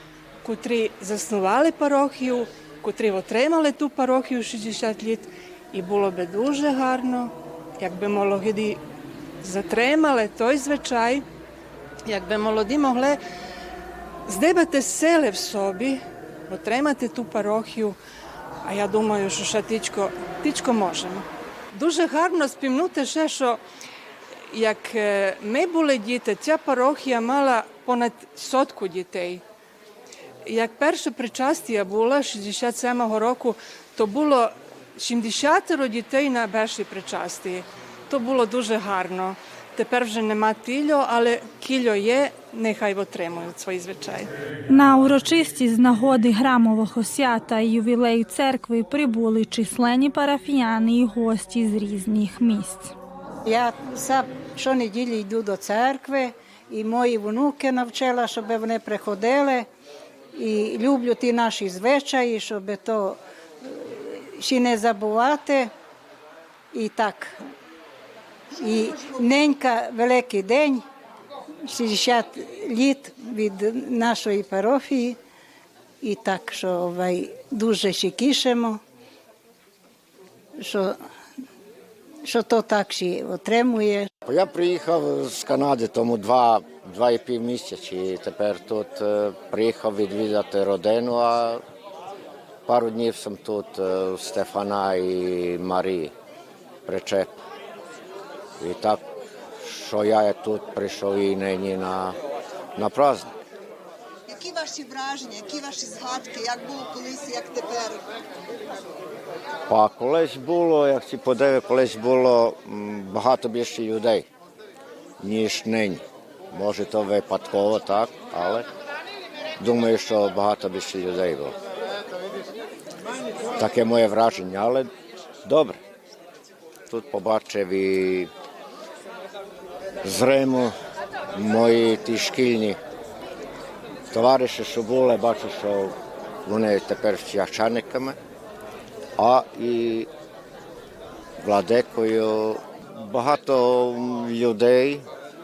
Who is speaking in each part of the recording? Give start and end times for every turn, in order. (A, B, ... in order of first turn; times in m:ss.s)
0:00.4-0:08.8 A
0:09.4-0:11.2 A
0:12.1-0:13.2 A
0:14.3-0:18.0 A
0:18.6-0:23.6 A
0:24.5-0:29.4 A
0:30.5-0:44.3 A
0:44.7-0:52.9 B
0:53.5-0:59.7 C
1:00.4-1:05.7 C
1:06.7-1:07.4 C
1:08.6-1:10.8 C
1:11.7-1:15.2 C
1:16.0-1:18.8 C
1:20.6-1:21.0 C
1:22.3-1:24.1 C
1:24.3-1:31.6 D
1:32.7-1:36.1 D
1:36.9-1:37.3 D
1:38.6-1:39.0 D
1:39.6-1:42.2 D
1:42.8-1:43.3 D
1:44.3-1:48.0 E
1:49.7-1:54.3 D
1:55.2-1:58.7 D
1:59.6-2:01.6 D
2:03.6-2:04.9 D
2:05.4-2:05.8 D
2:06.9-2:08.3 D
2:10.0-2:10.7 D
2:11.4-2:12.8 D
2:14.1-2:15.9 D
2:16.5-2:18.2 D
2:19.2-2:20.1 D
2:21.4-2:25.0 D